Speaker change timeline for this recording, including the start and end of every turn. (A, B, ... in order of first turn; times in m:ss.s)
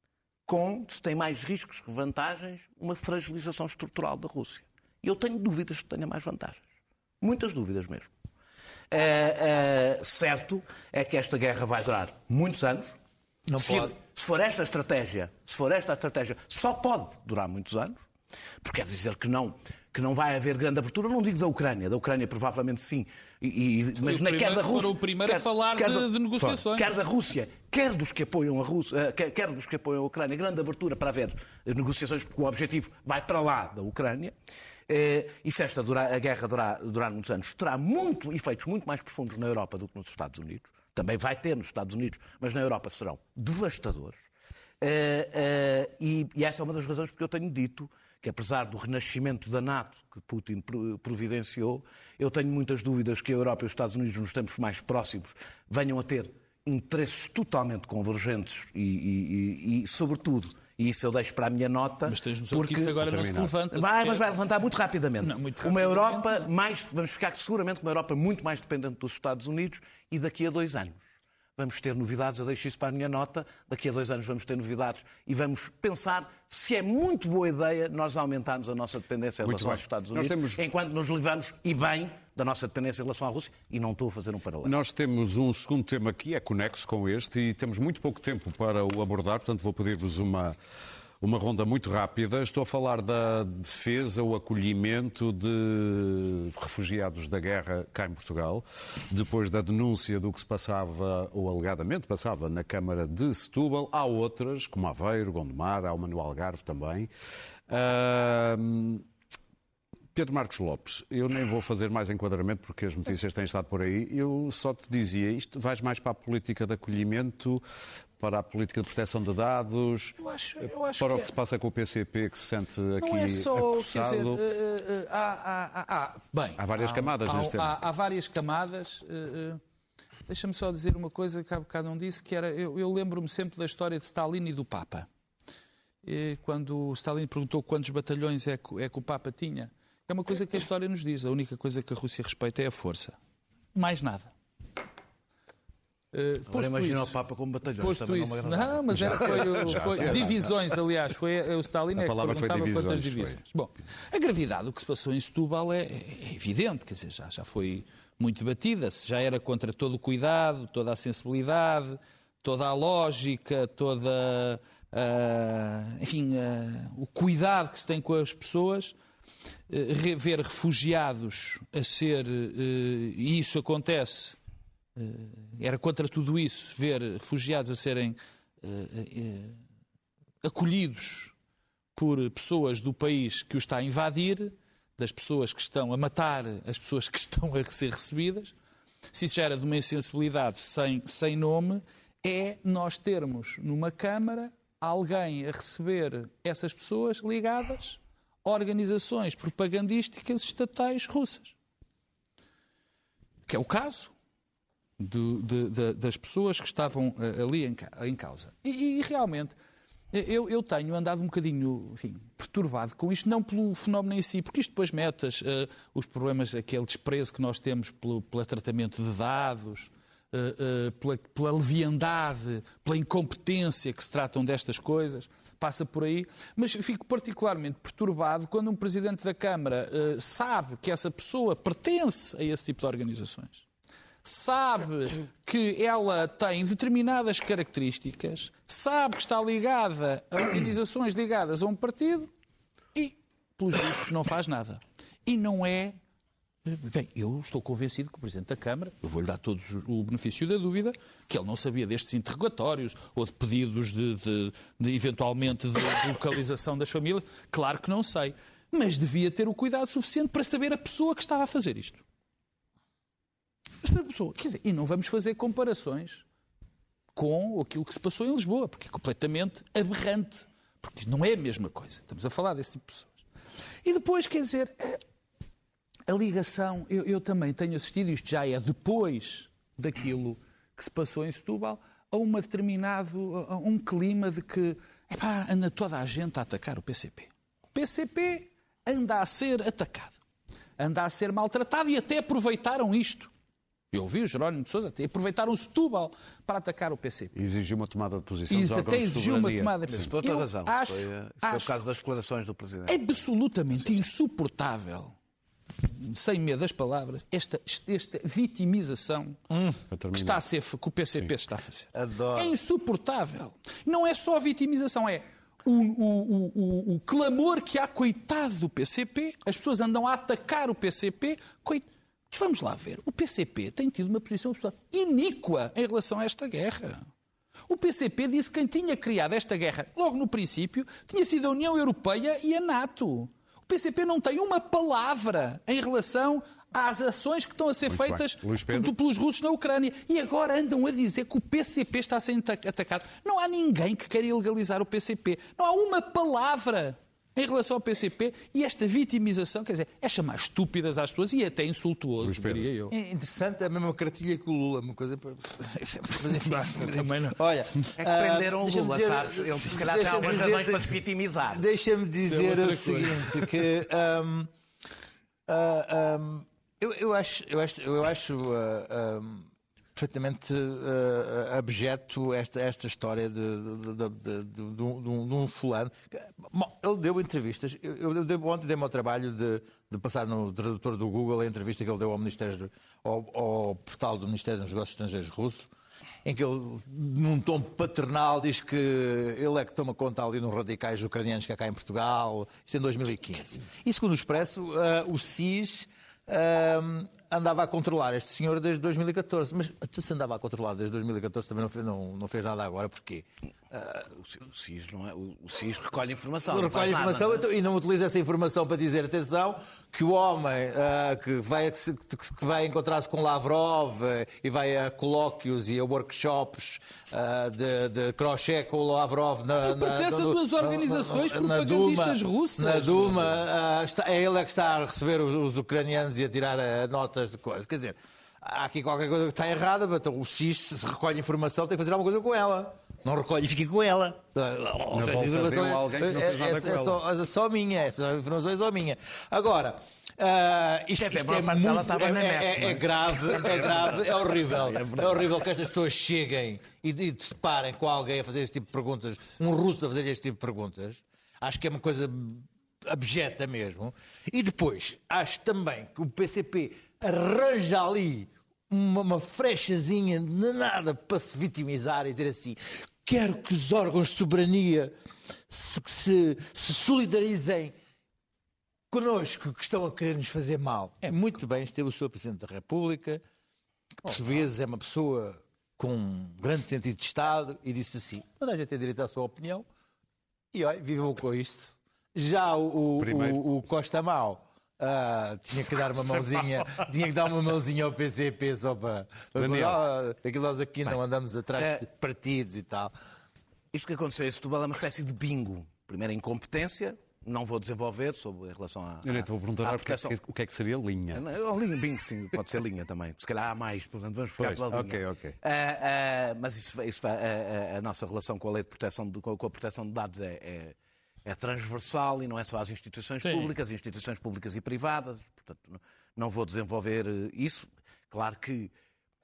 0:00.4-0:06.6 A
0:07.2-0:08.1 A
0:08.9-0:12.9 A
0:13.5-0:13.9 B
0:13.6-0:18.0 A
0:18.6-0:34.3 A
0:24.0-0:26.9 C
0:34.9-0:44.2 A
0:44.8-1:03.0 A
1:02.0-1:04.3 C
1:03.0-1:03.5 D
1:03.7-1:11.0 A
1:05.2-1:06.5 C
1:11.6-1:24.7 A
1:19.4-1:20.6 D
1:24.6-1:30.6 D
1:31.2-1:47.1 D
1:47.7-1:49.0 D
1:50.1-1:57.6 D
1:58.2-2:00.2 D
2:00.2-2:01.3 C
2:01.0-2:04.4 D
2:03.0-2:09.6 C
2:06.6-2:07.8 D
2:10.3-2:15.1 C
2:16.0-2:23.2 C
2:23.7-2:24.3 C
2:26.1-2:27.2 C
2:26.5-2:30.4 A
2:27.8-2:48.9 C
2:28.9-2:30.6 D
2:32.0-2:33.4 D
2:49.7-2:54.4 C
2:55.0-2:59.6 C
3:00.4-3:01.3 C
3:01.9-3:08.5 C
3:09.1-3:21.5 C
3:23.5-3:24.1 C
3:25.0-3:29.6 C
3:30.1-3:53.6 C
3:54.2-4:02.3 C
4:02.9-4:06.0 C
4:06.6-4:22.0 C
4:23.8-4:26.2 C
4:27.1-4:33.2 C
4:33.8-4:35.0 C
4:36.1-4:50.2 C
4:50.8-4:53.3 C
4:53.9-4:57.3 C
4:57.3-5:00.1 D
4:58.5-5:01.8 C
4:59.9-5:03.0 A
5:02.9-5:05.1 C
5:05.8-5:09.4 C
5:09.5-5:09.8 B
5:09.9-5:10.4 D
5:10.1-5:27.1 C
5:11.9-5:12.6 B
5:27.7-5:52.9 C
5:37.9-5:38.9 D
5:52.2-5:52.7 D
5:52.9-6:04.5 B
5:56.4-5:57.4 C
5:58.0-6:01.6 A
6:02.3-6:03.5 C
6:05.5-6:25.7 B
6:26.2-6:44.1 B
6:44.2-6:47.4 A
6:46.5-7:44.9 B
6:59.6-7:03.4 C
7:14.9-7:17.0 D
7:20.9-7:25.2 A
7:45.5-7:47.7 B
7:48.9-7:53.2 B
7:54.0-7:59.6 B
8:00.5-8:12.9 B
8:03.0-8:03.4 D
8:09.4-8:09.8 D
8:11.6-8:11.8 A
8:13.7-8:20.2 A
8:19.0-8:21.2 D
8:21.1-8:38.7 A
8:24.4-8:25.4 D
8:33.2-8:33.5 C